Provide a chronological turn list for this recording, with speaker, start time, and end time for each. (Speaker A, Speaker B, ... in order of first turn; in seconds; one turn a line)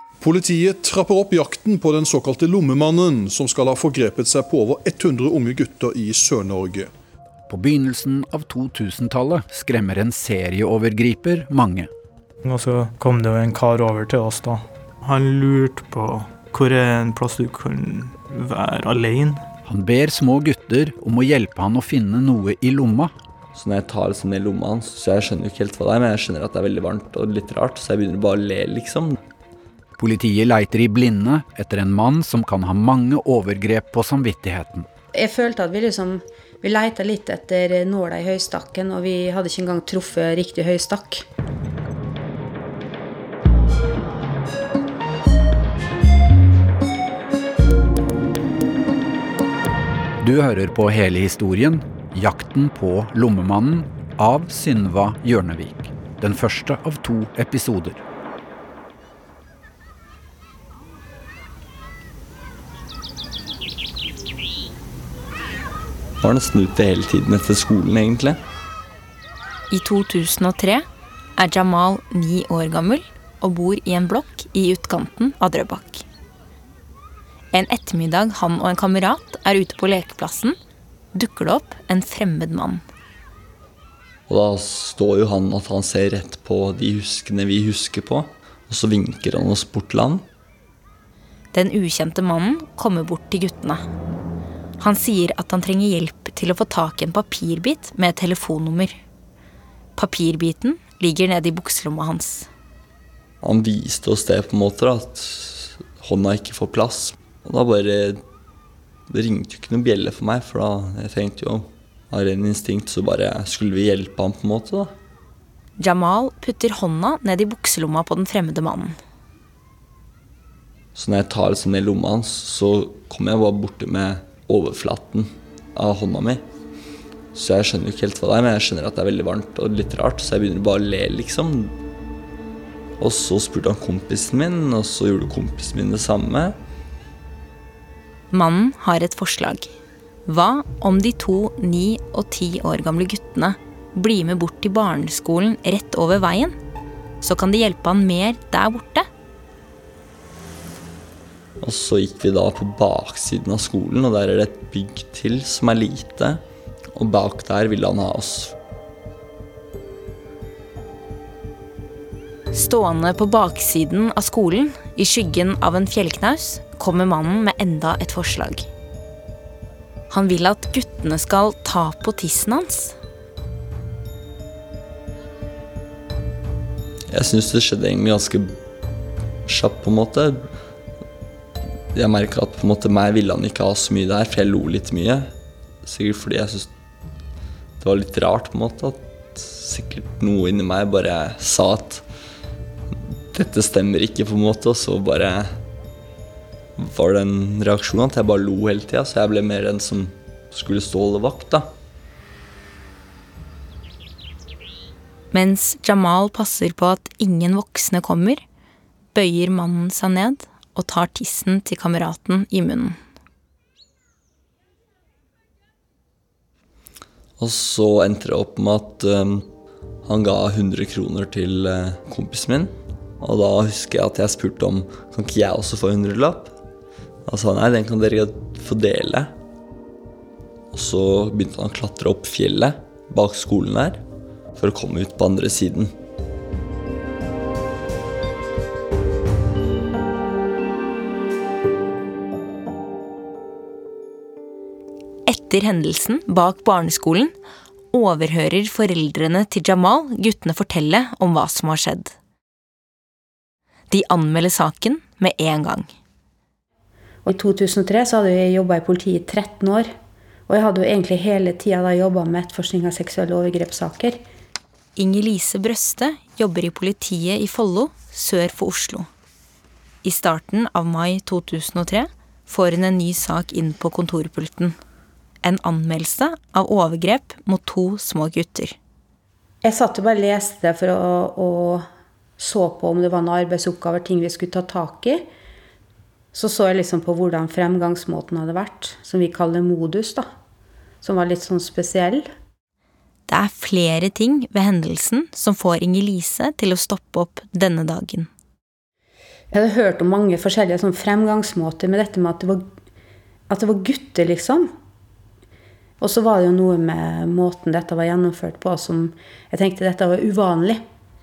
Speaker A: 0.2-6.9
Speaker B: 7.5-11.9
Speaker C: 12.4-19.4
Speaker B: 19.6-23.1
Speaker D: 23.5-29.2
Speaker B: 30.0-34.9
Speaker E: 35.1-41.2
Speaker B: 50.2-58.0
Speaker D: 66.2-68.4
Speaker F: 69.7-70.8
Speaker F: 71.4-76.0
Speaker F: 77.5-80.6
Speaker F: 81.1-82.8
Speaker D: 84.3-90.2
Speaker F: 91.5-93.8
Speaker F: 94.8-99.0
Speaker F: 100.0-102.5
Speaker D: 103.4-108.2
Speaker D: 109.1-114.9
Speaker F: 115.8-119.0
Speaker D: 120.9-126.4
Speaker D: 127.3-131.7
Speaker D: 133.0-136.6
Speaker F: 138.3-139.7
Speaker F: 140.2-146.6
Speaker F: 147.2-149.1
Speaker D: 151.6-156.4
Speaker D: 156.9-158.5
Speaker F: 162.5-168.7
Speaker F: 170.1-172.9
Speaker D: 177.1-178.6
Speaker D: 179.5-180.4
Speaker D: 181.9-185.3
Speaker D: 185.8-186.7
Speaker D: 187.8-192.0
Speaker D: 193.3-195.5
Speaker D: 196.8-201.7
Speaker F: 205.3-208.4
Speaker F: 209.1-213.0
Speaker D: 217.4-219.5
Speaker D: 220.0-226.5
Speaker D: 227.2-229.3
Speaker D: 230.7-234.0
Speaker D: 234.6-235.9
Speaker F: 245.2-247.3
Speaker F: 247.9-252.1
Speaker F: 253.9-255.9
Speaker E: 257.2-259.9
Speaker E: 260.5-264.2
Speaker F: 264.9-269.1
Speaker F: 270.0-274.8
Speaker F: 275.4-278.8
Speaker E: 279.6-281.9
Speaker E: 282.4-285.2
Speaker E: 286.3-290.3
Speaker E: 291.0-292.2
Speaker F: 293.3-298.3
Speaker E: 299.5-302.6
Speaker E: 303.5-304.7
Speaker E: 306.0-310.8